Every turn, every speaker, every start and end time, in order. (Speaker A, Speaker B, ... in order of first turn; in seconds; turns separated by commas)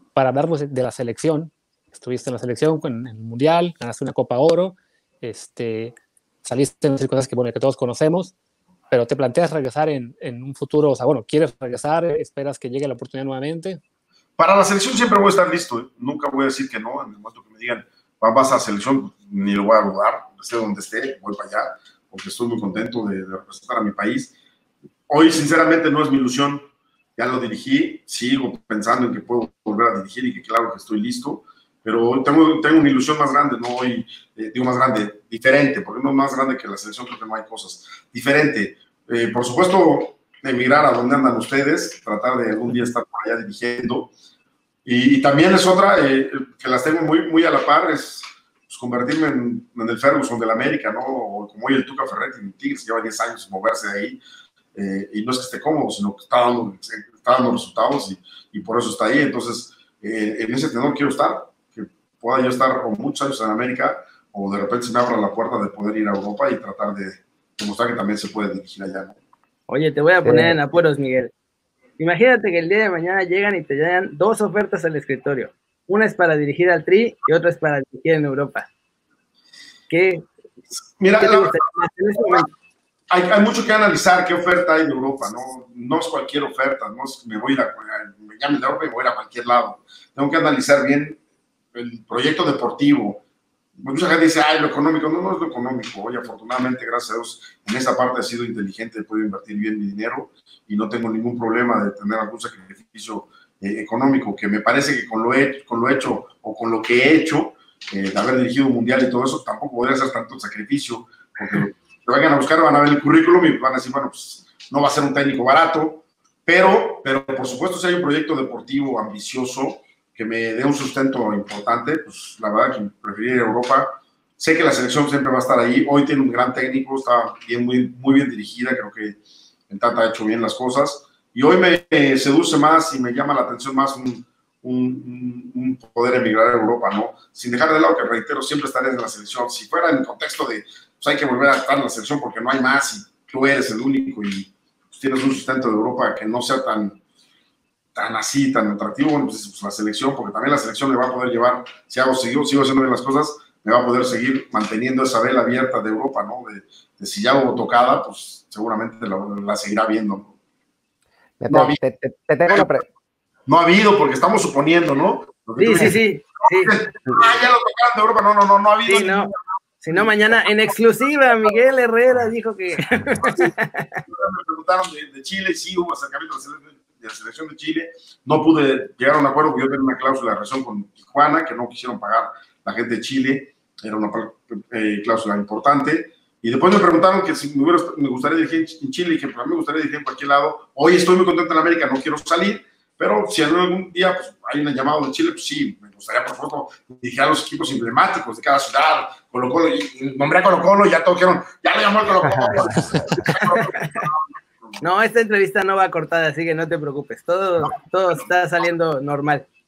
Speaker A: 0.1-8.3, Speaker A: 8.9-13.8, Speaker B: 14.4-24.3, Speaker B: 25.1-44.1, Speaker B: 44.8-54.2, Speaker B: 54.7-69.2, Speaker C: 69.7-71.3, Speaker D: 70.2-70.6, Speaker C: 72.0-78.7, Speaker C: 79.9-80.2, Speaker B: 81.0-81.6, Speaker C: 81.2-82.5, Speaker B: 83.1-91.2, Speaker B: 91.7-93.2, Speaker B: 93.8-147.0, Speaker B: 147.9-160.3, Speaker D: 161.4-162.9, Speaker B: 161.5-161.8, Speaker B: 162.5-162.8, Speaker B: 163.5-169.4, Speaker C: 165.6-166.7, Speaker C: 168.8-174.0, Speaker B: 169.9-170.7, Speaker B: 173.2-173.5, Speaker B: 174.1-204.8, Speaker D: 202.2-203.2, Speaker C: 203.4-204.0, Speaker C: 204.8-209.4, Speaker B: 207.6-208.3